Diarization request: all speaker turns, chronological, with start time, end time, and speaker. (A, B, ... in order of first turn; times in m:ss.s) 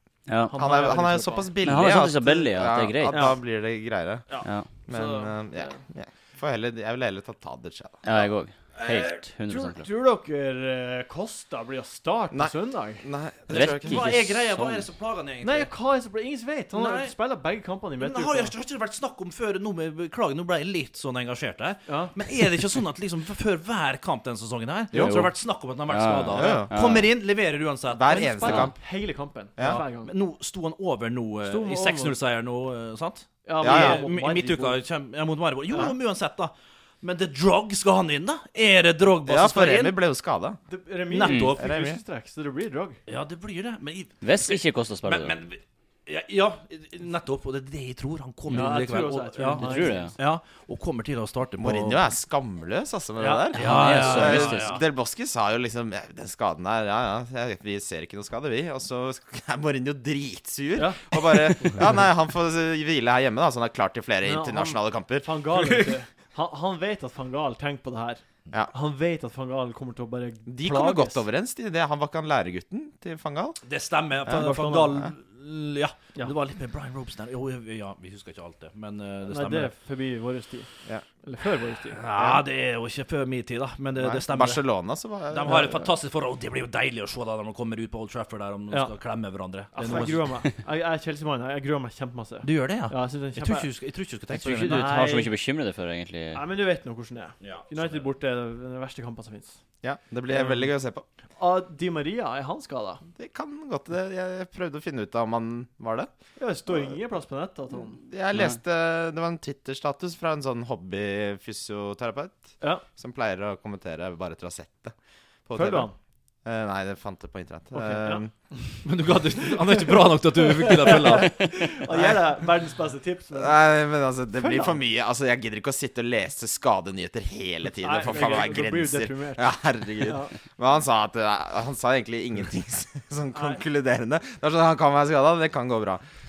0:00.3-0:00.5 A
0:00.4-0:04.3 B
0:00.5-0:01.5 C
0:01.6-0:03.3 A
0:03.1-0:03.4 C
0:04.3-0:05.8 C
0:04.8-0:08.3 B
0:08.0-0:09.9 A
0:08.8-0:13.0 C
0:12.3-0:14.2 B
0:13.5-0:14.8 A
0:13.5-0:15.7 D
0:15.4-0:18.5 C
0:16.7-0:17.2 D
0:18.0-0:28.7 D
0:21.8-0:22.1 C
0:24.9-0:25.2 B
0:25.0-0:27.1 A
0:26.2-0:26.9 B
0:27.9-0:28.8 B
0:28.1-0:30.1 C
0:29.6-0:40.0 D
0:31.4-0:32.2 C
0:33.4-0:34.8 C
0:33.6-0:34.0 B
0:39.2-0:40.6 B
0:40.7-0:43.0 C
0:41.1-0:41.6 D
0:41.2-0:41.5 A
0:41.5-0:42.0 B
0:43.1-0:52.0 D
0:44.2-0:45.3 A
0:48.5-0:50.2 C
0:49.5-0:50.1 A
0:51.6-1:05.3 B
0:53.2-0:53.5 C
0:53.5-0:54.8 D
0:53.6-0:54.8 A
1:00.8-1:01.8 C
1:04.2-1:11.2 C
1:05.5-1:06.0 D
1:10.5-1:13.6 B
1:13.6-1:19.7 D
1:14.3-1:15.1 C
1:19.2-1:22.4 C
1:21.9-1:24.6 D
1:24.0-1:25.9 B
1:25.3-1:30.4 D
1:25.4-1:25.7 C
1:28.7-1:29.0 C
1:29.7-1:33.7 C
1:32.4-1:35.0 D
1:34.3-1:36.4 A
1:34.6-1:35.3 C
1:36.3-1:39.6 C
1:37.4-1:38.0 D
1:39.8-1:41.0 B
1:40.3-1:40.7 C
1:41.4-1:43.0 C
1:43.2-1:46.1 B
1:46.4-1:48.0 C
1:47.7-1:54.9 B
1:55.4-1:55.9 B
1:55.5-1:55.9 C
1:56.4-1:58.3 B
1:57.7-1:58.2 C
1:58.8-2:01.5 D
2:00.6-2:03.6 C
2:01.9-2:02.2 B
2:03.3-2:16.0 B
2:04.3-2:04.8 C
2:07.8-2:10.3 C
2:13.3-2:13.6 C